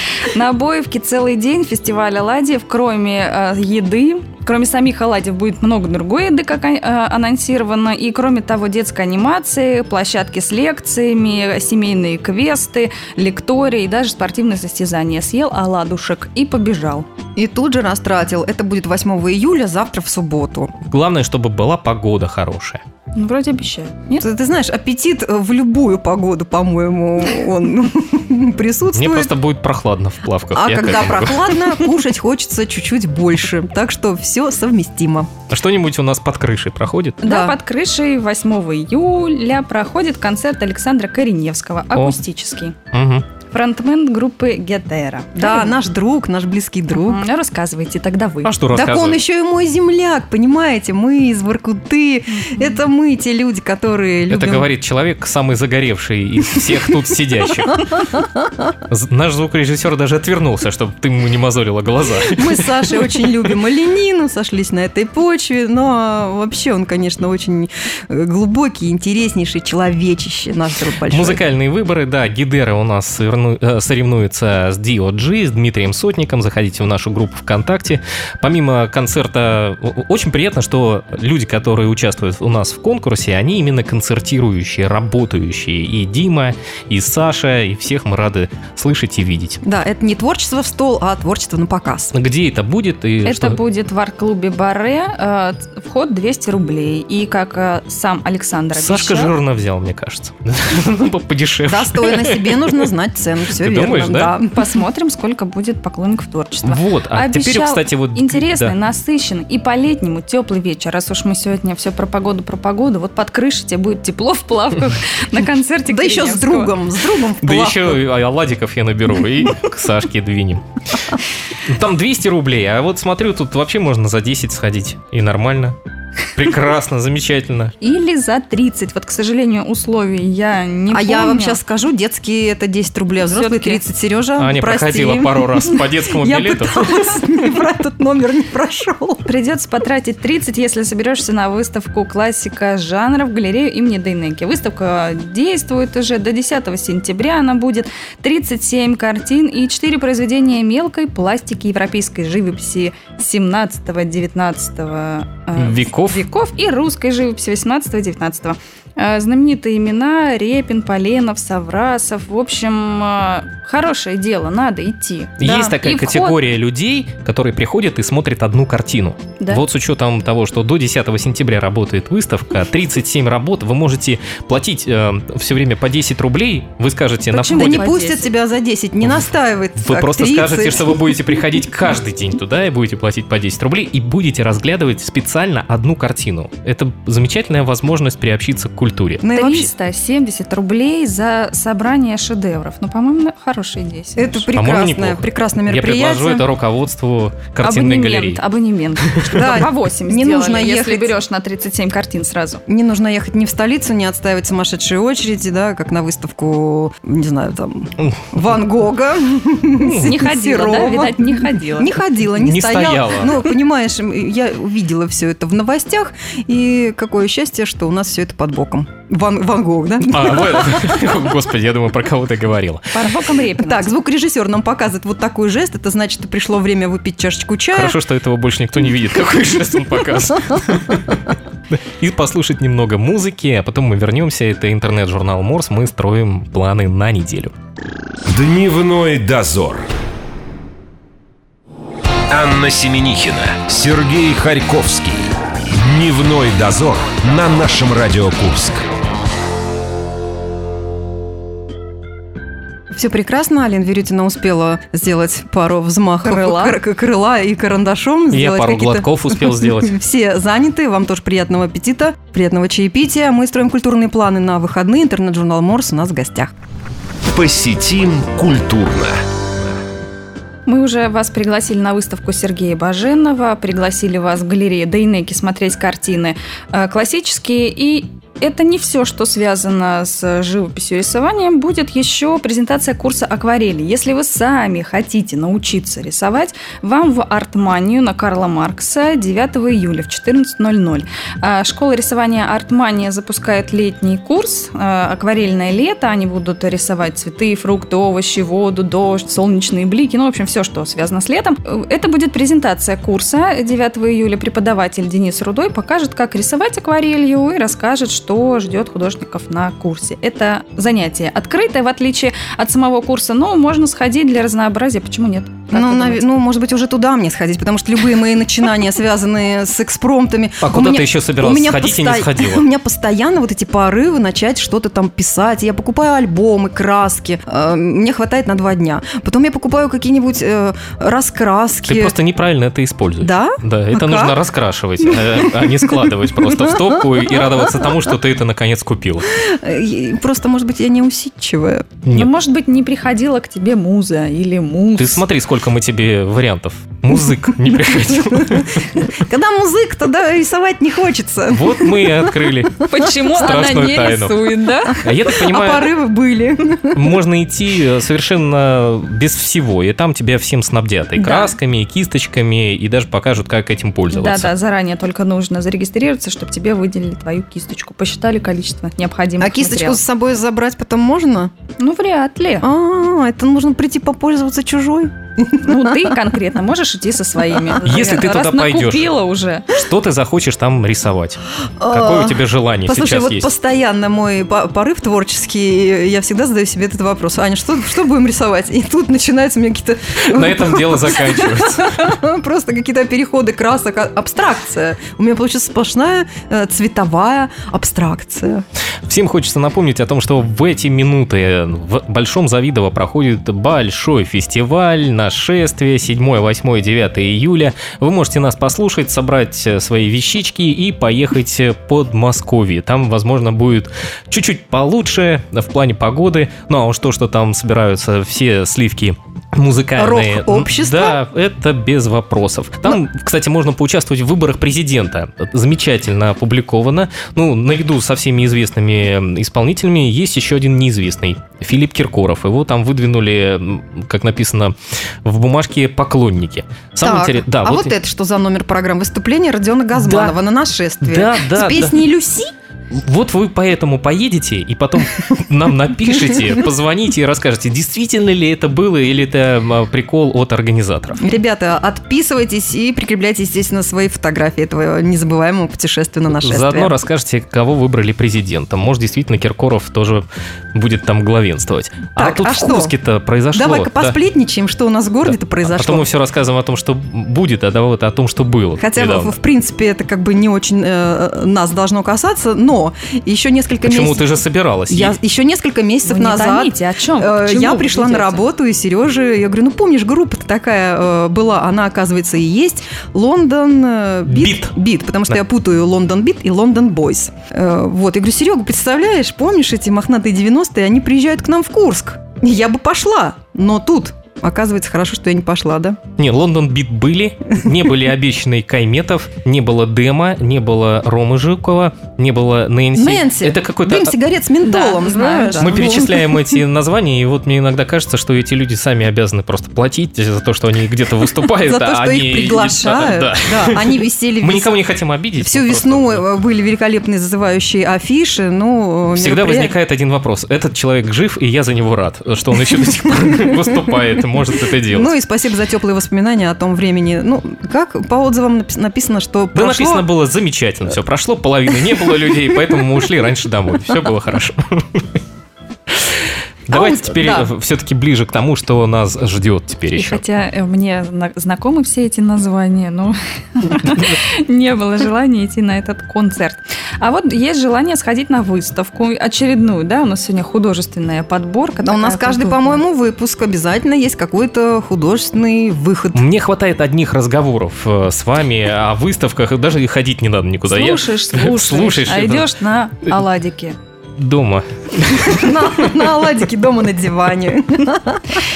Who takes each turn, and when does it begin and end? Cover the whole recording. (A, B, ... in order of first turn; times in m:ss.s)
0:00.3-0:17.1 A
0:17.4-0:20.7 B
0:20.9-0:22.8 C
0:23.2-0:24.2 A
0:24.2-0:29.3 B
0:28.9-0:31.8 C
0:30.6-0:35.3 B
0:35.5-0:37.2 C
0:37.2-0:42.8 A
0:37.2-0:37.6 B
0:42.9-0:43.3 C
0:43.5-0:45.8 A
0:45.4-0:47.2 B
0:46.9-0:48.5 A
0:48.4-0:49.2 C
0:48.7-0:54.7 B
0:52.3-0:52.7 A
0:54.3-0:58.0 C
0:58.9-1:03.2 C
1:02.2-1:11.4 B
1:11.1-1:29.6 C
1:29.6-1:32.1 B
1:32.1-1:33.6 C
1:33.2-1:39.3 A
1:38.7-1:42.9 C
1:41.7-1:44.8 B
1:43.5-1:44.3 C
1:44.5-1:56.7 A
1:46.6-1:48.8 C
1:55.9-1:58.0 B
1:57.4-2:00.6 C
2:01.6-2:05.8 C
2:06.4-2:07.7 C
2:07.8-2:11.6 A
2:10.9-2:19.3 B
2:13.3-2:13.8 A
2:14.4-2:17.2 C
2:19.3-2:46.4 A
2:35.6-2:36.2 C
2:45.4-2:57.9 C
2:45.4-2:45.8 B
2:57.3-2:58.3 A
2:57.5-3:01.2 B
2:59.8-3:09.2 C
3:09.2-3:09.7 B
3:09.3-3:14.5 A
3:14.2-3:16.4 B
3:14.6-3:18.4 C
3:17.6-3:22.6 A
3:19.1-3:19.6 C
3:19.3-3:21.2 B
3:22.7-3:41.0 B
3:29.8-3:30.2 C
3:29.8-3:31.9 A
3:32.4-3:33.5 C
3:40.0-3:43.1 C
3:42.9-3:43.9 A
3:43.6-3:48.0 B
3:47.7-3:57.5 C
3:58.3-3:59.9 D
4:02.3-4:08.9 D
4:12.9-4:26.5 B
4:16.2-4:16.8 A
4:18.3-4:20.0 C
4:27.3-4:29.2 D
4:30.7-5:16.2 A
5:15.7-5:32.2 B
5:20.6-5:22.6 C
5:31.9-5:39.3 C
5:33.2-5:34.4 B
5:35.0-5:37.0 B
5:39.3-5:42.0 B
5:42.1-5:42.3 C
5:42.1-5:45.2 A
5:45.0-5:49.0 C
5:48.1-5:52.5 B
5:51.5-5:55.9 C
5:52.9-5:55.0 A
5:55.2-5:57.2 B
5:56.9-6:04.5 C
6:01.2-6:01.5 B
6:04.1-6:10.0 A
6:09.4-6:11.5 B
6:11.8-6:12.7 A
6:12.6-6:16.2 B
6:15.6-6:19.8 A
6:17.8-6:19.2 C
6:19.7-6:23.5 C
6:21.8-6:38.6 B
6:30.2-6:32.1 C
6:39.1-7:17.9 C
7:00.0-7:01.2 B
7:17.0-7:22.5 B
7:19.9-7:20.4 C
7:21.0-7:22.0 C
7:22.9-7:31.2 C
7:31.2-7:36.9 B
7:36.3-7:44.2 C
7:42.2-7:42.9 B
7:43.5-7:46.1 B
7:45.3-7:49.4 C
7:48.8-7:54.3 B
7:53.9-7:55.2 C
7:54.9-8:16.0 B
7:56.1-7:58.4 A
8:04.3-8:04.7 C
8:16.2-8:24.1 C
8:23.0-8:26.6 B
8:24.6-8:25.9 A
8:25.6-8:36.2 C
8:31.6-8:34.8 B
8:35.4-8:39.8 B
8:39.2-8:45.1 C
8:43.2-8:43.9 B
8:44.9-8:50.1 B
8:49.6-8:55.1 C
8:55.9-9:00.2 C
8:56.7-8:57.5 B
9:00.0-9:12.8 A
9:11.8-9:16.2 B
9:16.2-9:22.5 C
9:20.7-9:23.8 A
9:24.2-9:25.9 C
9:25.2-9:28.4 B